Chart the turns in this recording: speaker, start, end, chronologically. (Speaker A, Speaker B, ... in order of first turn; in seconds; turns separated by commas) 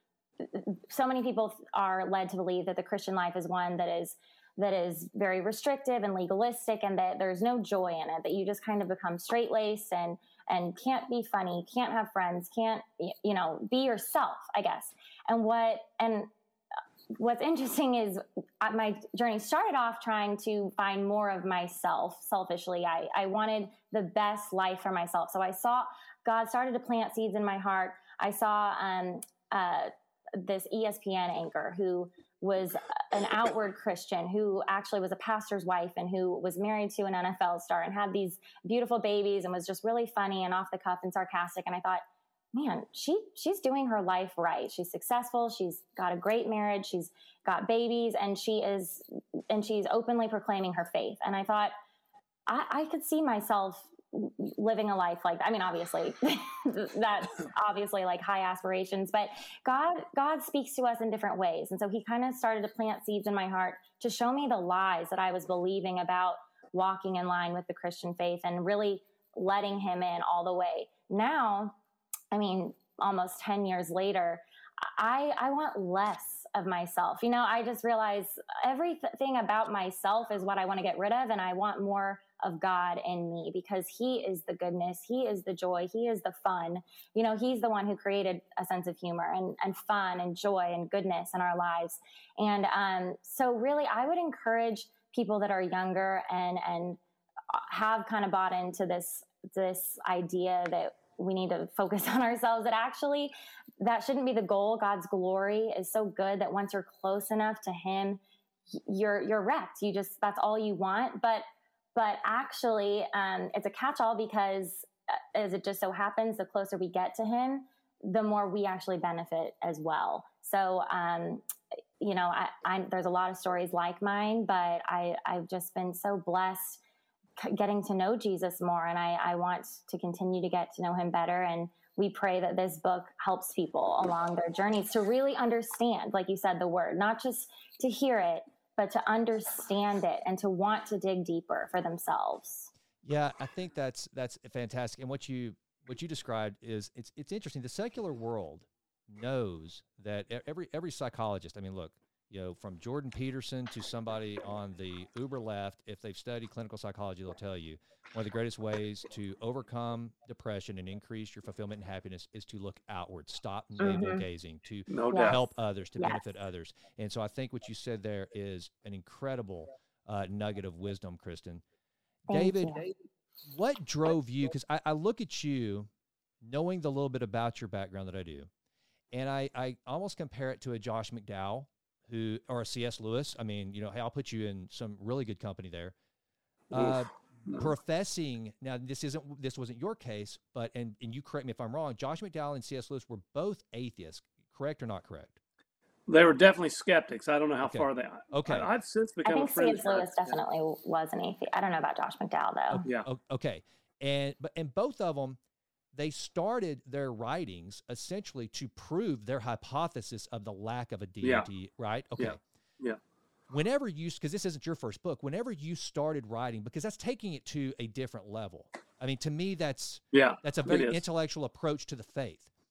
Speaker A: 0.4-16.3, Speaker A: 17.2-42.0, Speaker A: 42.5-51.7, Speaker A: 52.5-71.8, Speaker A: 72.3-97.0, Speaker A: 97.5-108.2, Speaker A: 108.7-111.4, Speaker A: 111.9-121.4, Speaker A: 122.0-126.8, Speaker A: 127.4-142.7, Speaker B: 143.0-171.6, Speaker A: 163.8-164.2, Speaker C: 164.9-165.4, Speaker A: 165.1-165.4, Speaker A: 172.3-172.9, Speaker B: 172.3-172.8, Speaker B: 173.4-175.9, Speaker B: 176.4-178.5, Speaker B: 179.1-185.9, Speaker C: 186.7-187.7, Speaker B: 186.7-195.4, Speaker C: 196.1-200.3, Speaker B: 197.6-198.7, Speaker A: 199.2-202.8, Speaker B: 202.7-205.4, Speaker B: 205.9-212.4, Speaker C: 211.2-211.5, Speaker C: 212.2-213.0, Speaker B: 213.5-222.5, Speaker C: 220.1-221.0